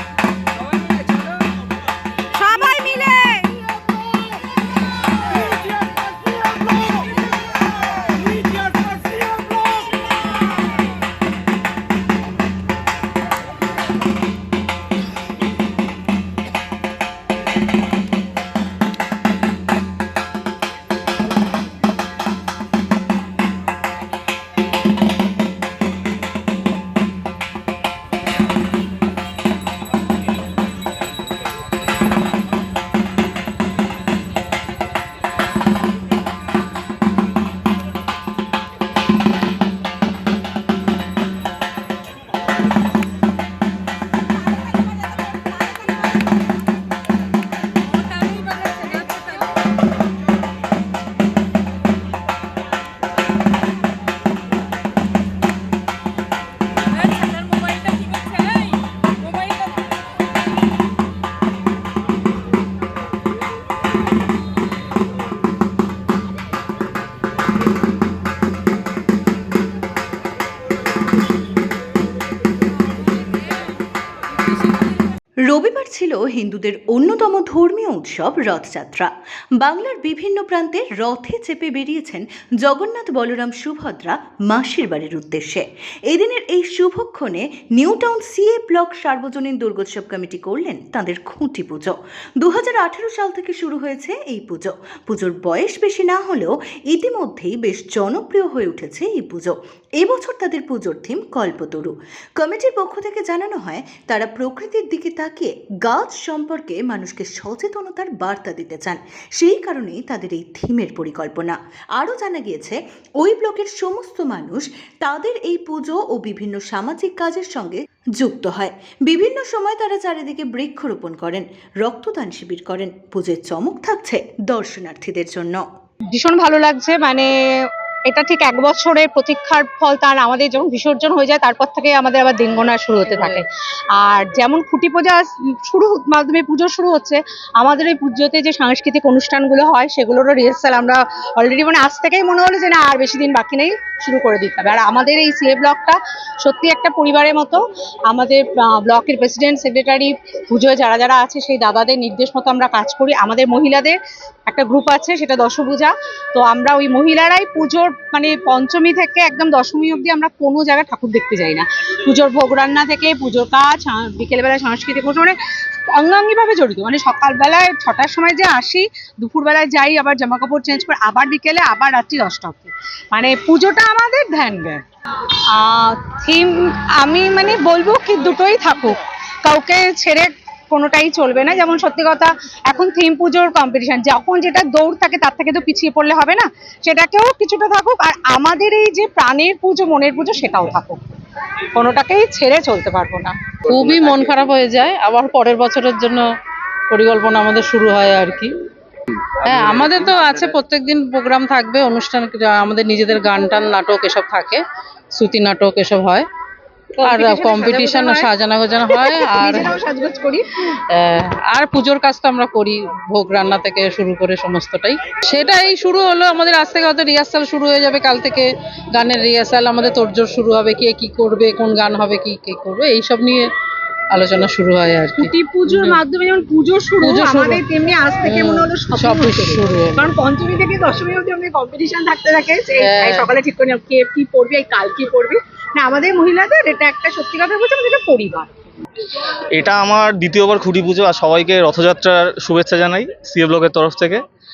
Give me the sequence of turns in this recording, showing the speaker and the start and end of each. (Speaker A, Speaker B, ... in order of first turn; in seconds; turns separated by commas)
Speaker A: 2.4-3.4, Speaker B: 75.5-125.6, Speaker A: 126.1-127.3, Speaker A: 128.1-133.5, Speaker C: 133.1-133.4, Speaker A: 134.0-165.4, Speaker A: 165.9-174.8, Speaker A: 175.5-191.0, Speaker A: 191.7-193.3, Speaker C: 193.7-196.3, Speaker C: 196.9-198.5, Speaker C: 199.4-204.6, Speaker C: 205.1-206.3, Speaker A: 207.0-208.3, Speaker C: 207.0-209.8, Speaker A: 208.9-210.5, Speaker C: 210.9-223.5, Speaker C: 224.1-226.0, Speaker A: 225.2-238.5, Speaker C: 227.0-227.6, Speaker C: 228.2-230.0, Speaker C: 232.8-233.3, Speaker D: 239.5-244.2